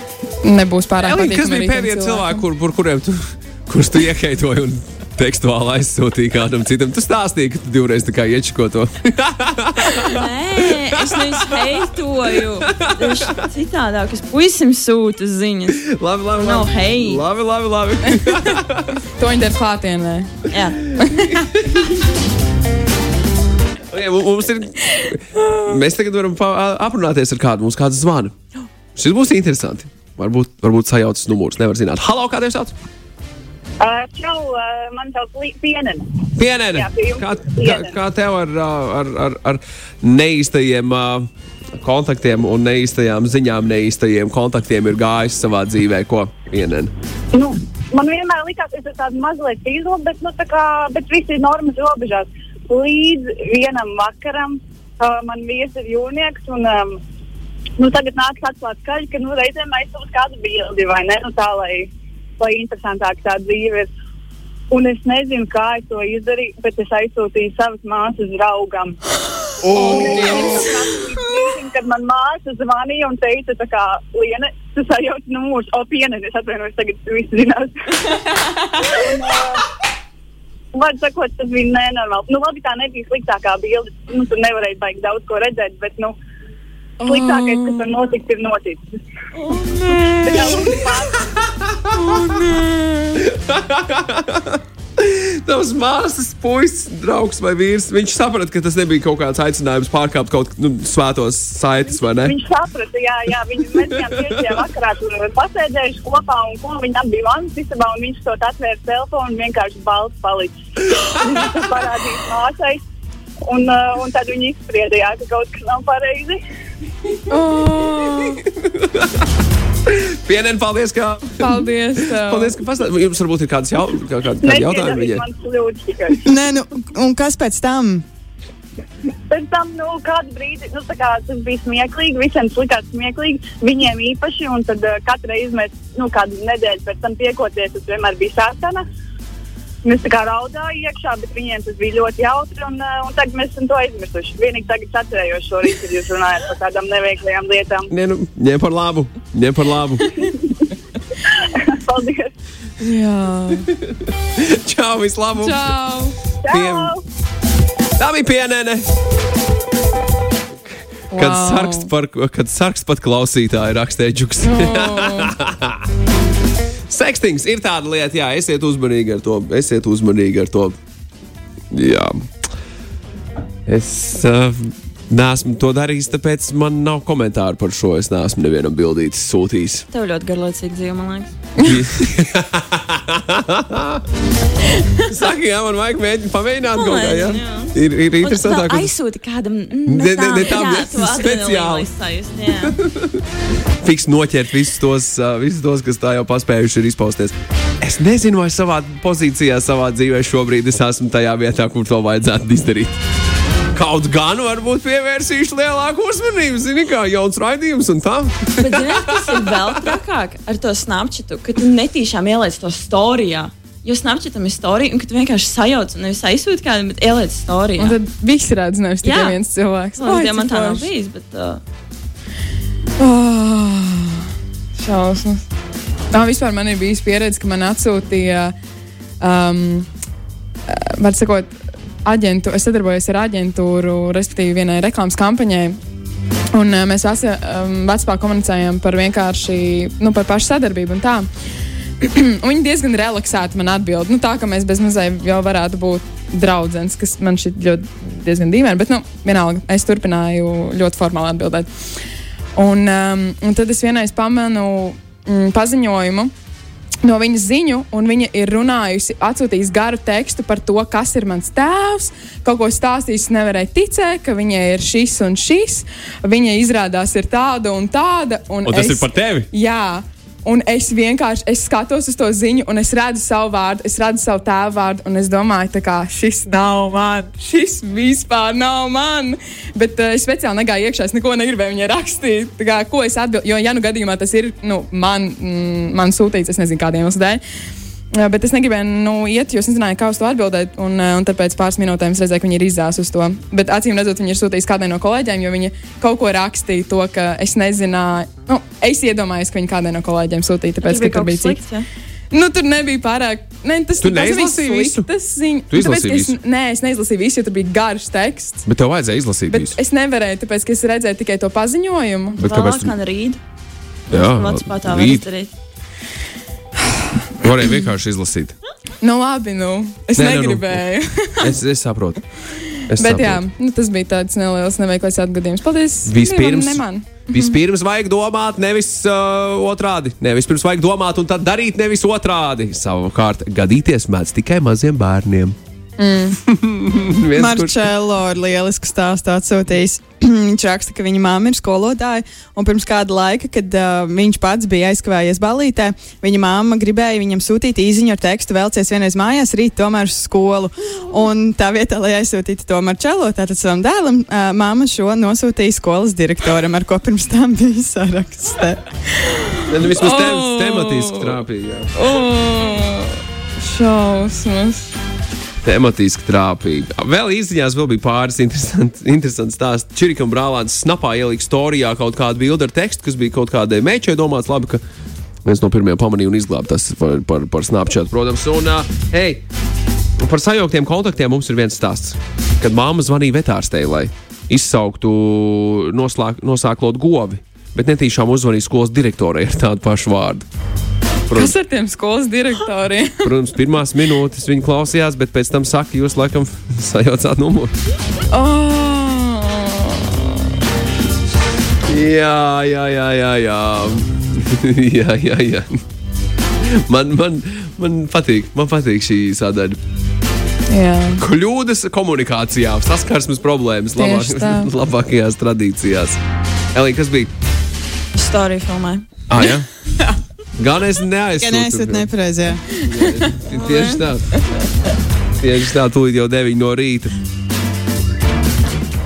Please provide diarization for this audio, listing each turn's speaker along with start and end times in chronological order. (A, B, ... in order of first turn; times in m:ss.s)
0:00.4-0:02.4 A
0:01.0-0:10.2 B
0:10.1-0:15.8 C
0:11.1-0:11.8 B
0:12.7-0:13.2 B
0:15.9-0:18.9 B
0:16.4-0:17.2 C
0:18.1-0:18.5 A
0:19.1-0:20.4 A
0:20.5-0:20.8 C
0:20.9-0:21.5 A
0:23.9-0:28.3 B
0:29.0-0:32.7 B
0:33.8-0:37.9 D
0:36.4-0:41.3 B
0:41.8-0:46.9 B
0:47.3-0:57.0 D
0:57.8-1:03.9 D
1:04.7-1:09.0 D
1:09.6-1:10.8 A
1:09.7-1:19.6 D
1:20.7-1:26.1 D
1:27.0-1:27.9 A
1:27.0-1:28.8 D
1:29.4-1:30.9 A
1:30.2-1:31.2 D
1:31.3-1:31.9 B
1:31.9-1:33.2 A
1:33.3-1:42.3 B
1:41.8-1:50.5 D
1:43.8-1:44.6 B
1:50.9-1:51.5 B
1:51.1-1:52.8 D
1:53.5-1:56.4 D
1:57.3-1:58.4 A
1:58.6-1:59.1 B
1:59.9-2:05.2 B
2:01.4-2:02.5 A
2:04.4-2:06.2 D
2:06.2-2:08.0 E
2:09.3-2:18.8 D
2:19.8-2:27.9 D
2:27.9-2:30.1 B
2:31.3-2:32.3 D
2:32.8-2:33.7 A
2:33.9-2:35.7 B
2:35.4-2:36.1 A
2:36.4-2:37.0 D
2:36.5-2:36.9 B
2:38.0-2:38.9 B
2:40.7-2:45.8 B
2:41.1-2:41.9 A
2:44.4-2:45.3 A
2:46.9-2:50.8 B
2:51.7-2:52.5 B
2:53.7-2:59.8 B
2:59.9-3:01.3 C
3:01.6-3:01.8 A
3:01.6-3:04.0 B
3:05.1-3:08.9 B
3:06.7-3:12.7 C
3:09.8-3:11.9 B
3:12.5-3:13.2 B
3:13.8-3:23.0 B
3:23.7-3:29.6 B
3:28.6-3:38.0 C
3:37.8-3:40.9 A
3:39.0-3:39.4 C
3:40.0-3:41.6 C
3:43.0-3:44.2 A
3:44.7-3:45.4 A
3:46.1-3:48.5 A
3:49.2-3:49.9 A
3:50.7-3:55.8 A
3:56.5-4:01.2 A
4:02.0-4:11.7 A
4:12.6-4:16.3 A
4:17.0-4:47.4 A
4:28.6-4:29.5 B
4:48.1-5:01.6 A
5:00.8-5:01.8 C
5:02.3-5:08.6 A
5:04.0-5:05.1 B
5:05.7-5:06.4 B
5:08.6-5:09.8 B
5:09.5-5:12.4 A
5:12.4-5:13.0 B
5:12.4-5:13.4 C
5:14.1-5:15.5 C
5:14.1-5:15.2 B
5:17.4-5:18.5 B
5:19.0-5:21.6 A
5:20.2-5:20.8 B
5:21.4-5:22.2 B
5:22.5-5:27.6 A
5:22.9-5:23.4 B
5:26.0-5:35.6 B
5:36.0-5:36.4 A
5:36.5-5:37.8 B
5:37.3-5:58.8 E
5:59.2-6:01.4 A
5:59.7-6:01.9 B
6:01.9-6:04.9 A
6:05.6-6:14.8 B
6:15.4-6:19.4 B
6:20.2-6:30.4 B
6:31.3-6:31.5 B
6:31.3-6:33.3 A
6:33.2-6:37.7 B
6:38.3-6:40.4 A
6:41.9-6:45.8 B
6:46.6-6:49.8 B
6:50.7-6:51.2 A
6:51.2-6:56.2 B
6:54.0-6:54.7 A
6:56.7-6:57.3 B
6:58.1-6:59.0 C
6:59.3-6:59.7 B
7:00.6-7:02.1 B
7:01.4-7:02.7 E
7:02.8-7:04.3 B
7:03.5-7:04.0 C
7:05.4-7:07.1 B